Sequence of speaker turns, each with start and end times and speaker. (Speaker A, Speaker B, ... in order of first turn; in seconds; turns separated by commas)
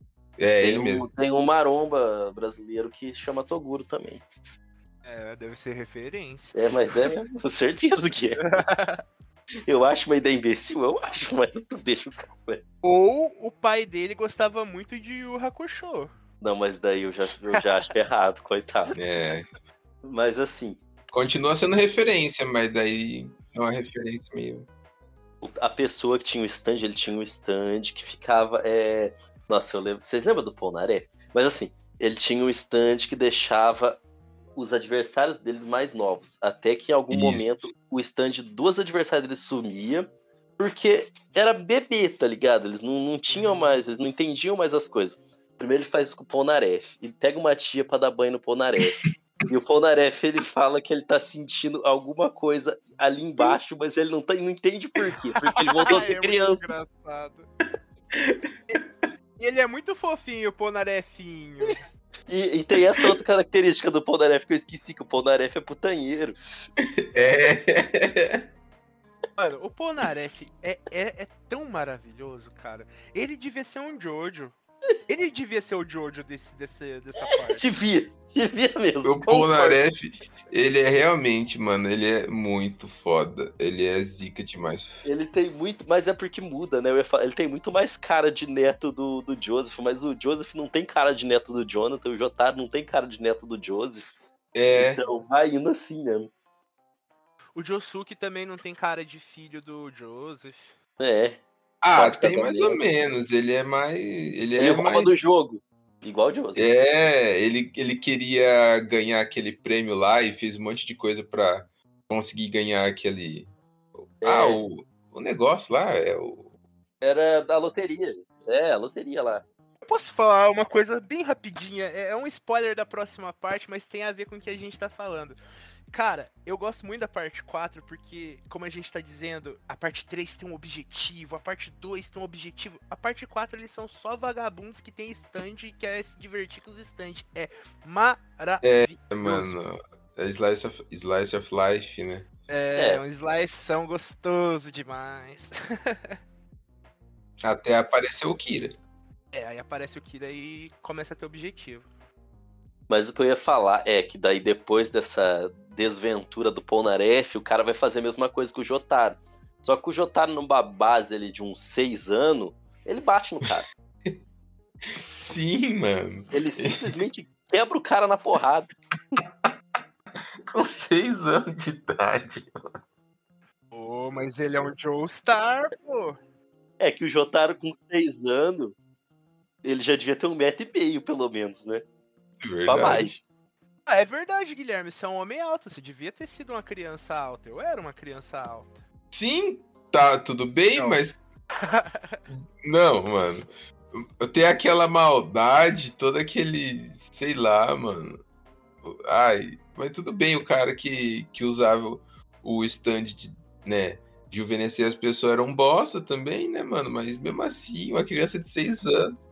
Speaker A: 0.4-1.1, Speaker B: 0.6-4.2, Speaker C: 5.0-7.0, Speaker B: 6.5-8.4, Speaker C: 8.4-9.0, Speaker B: 9.7-12.6, Speaker C: 12.8-16.1, Speaker B: 16.4-18.9, Speaker A: 19.0-19.5, Speaker B: 20.0-20.8, Speaker A: 21.1-24.7, Speaker B: 25.4-34.0, Speaker B: 34.6-56.6, Speaker A: 37.1-37.7, Speaker C: 43.3-43.7, Speaker A: 48.8-49.1, Speaker C: 55.4-57.5, Speaker A: 58.1-58.8, Speaker C: 59.4-61.8, Speaker B: 62.3-66.4, Speaker A: 66.8-68.5, Speaker C: 69.4-74.5, Speaker C: 75.1-77.6, Speaker B: 77.2-79.8, Speaker A: 79.0-84.9, Speaker B: 85.0-94.1, Speaker A: 94.5-95.0, Speaker B: 94.7-96.3, Speaker C: 97.6-100.7, Speaker B: 101.0-101.4, Speaker A: 101.8-105.2, Speaker B: 102.0-102.8, Speaker B: 104.6-106.7, Speaker A: 106.6-113.5, Speaker A: 114.0-116.5, Speaker B: 114.2-114.6, Speaker B: 117.0-119.4, Speaker C: 119.8-125.4, Speaker C: 125.9-139.6, Speaker A: 138.6-142.3, Speaker C: 142.5-146.2, Speaker B: 142.8-143.0, Speaker A: 147.4-148.8, Speaker C: 149.3-151.9, Speaker B: 152.9-163.7, Speaker A: 164.9-167.0, Speaker B: 166.3-168.7, Speaker A: 170.5-172.7, Speaker C: 173.7-176.2, Speaker B: 176.8-178.8, Speaker B: 179.6-181.8, Speaker A: 182.4-183.2, Speaker B: 182.7-183.1, Speaker C: 183.9-188.8, Speaker A: 189.1-191.2, Speaker C: 190.8-192.2, Speaker A: 192.3-198.2, Speaker A: 198.8-209.2